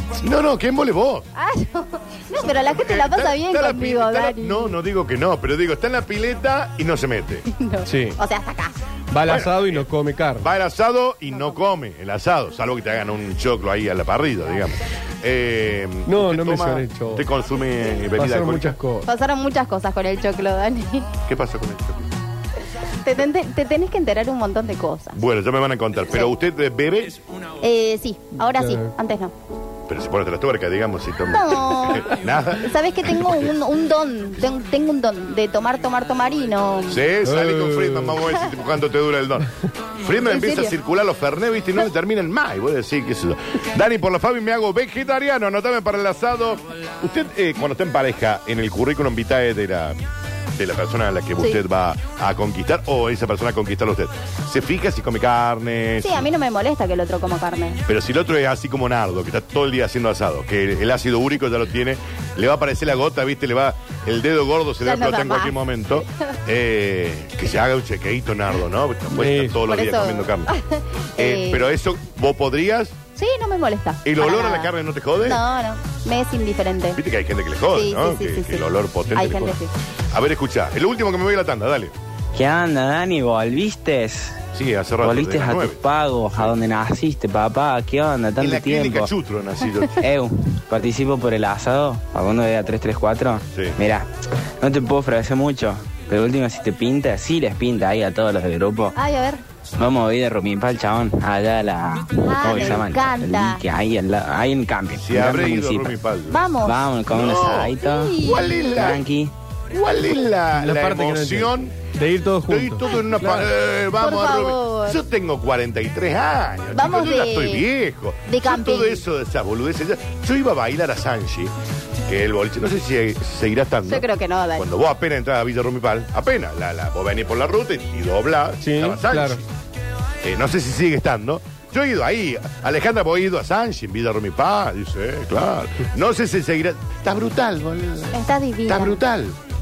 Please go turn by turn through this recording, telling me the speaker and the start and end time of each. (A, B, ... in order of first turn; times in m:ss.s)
0:00.2-0:01.2 A
0:01.3-0:04.7 B
0:02.6-0:07.4 A
0:07.5-0:08.8 B
0:07.8-0:08.2 C
0:09.1-0:10.5 C
0:09.2-0:09.8 A
0:10.4-0:18.8 A
0:11.3-0:11.6 B
0:16.0-0:17.3 C
0:18.2-0:19.1 C
0:19.0-0:21.1 B
0:21.3-0:22.0 A
0:23.0-0:25.2 B
0:25.1-0:27.2 A
0:27.6-0:29.3 B
0:28.6-0:28.9 C
0:29.9-0:33.5 A
0:31.3-0:37.0 B
0:36.9-0:39.5 A
0:37.2-0:38.2 C
0:40.0-0:50.0 A
0:40.2-0:40.7 B
0:50.5-0:56.3 A
0:56.0-0:57.8 B
0:57.8-1:10.5 A
1:04.8-1:06.0 B
1:09.1-1:09.6 C
1:09.7-1:11.7 B
1:11.2-1:12.9 A
1:13.2-1:17.0 B
1:14.0-1:15.4 A
1:17.0-1:19.6 A
1:17.7-1:19.7 B
1:20.1-1:21.9 A
1:22.3-1:24.4 D
1:24.5-1:26.6 A
1:25.0-1:29.1 D
1:28.4-1:30.0 A
1:30.0-1:34.1 D
1:34.6-1:39.0 D
1:39.0-1:39.4 B
1:39.8-1:46.0 D
1:42.2-1:43.6 B
1:42.4-1:42.8 A
1:45.0-1:46.4 A
1:46.3-1:46.8 B
1:46.6-1:48.2 D
1:47.1-1:49.0 A
1:47.8-1:48.9 B
1:48.7-1:49.3 D
1:49.7-1:51.8 A
1:50.5-1:53.5 C
1:52.5-2:01.5 A
1:54.0-1:55.0 B
1:56.7-1:57.6 B
1:58.3-1:59.0 B
2:02.1-2:09.4 A
2:03.8-2:04.7 B
2:08.6-2:09.4 C
2:10.2-2:18.1 A
2:18.1-2:19.0 B
2:18.7-2:19.4 A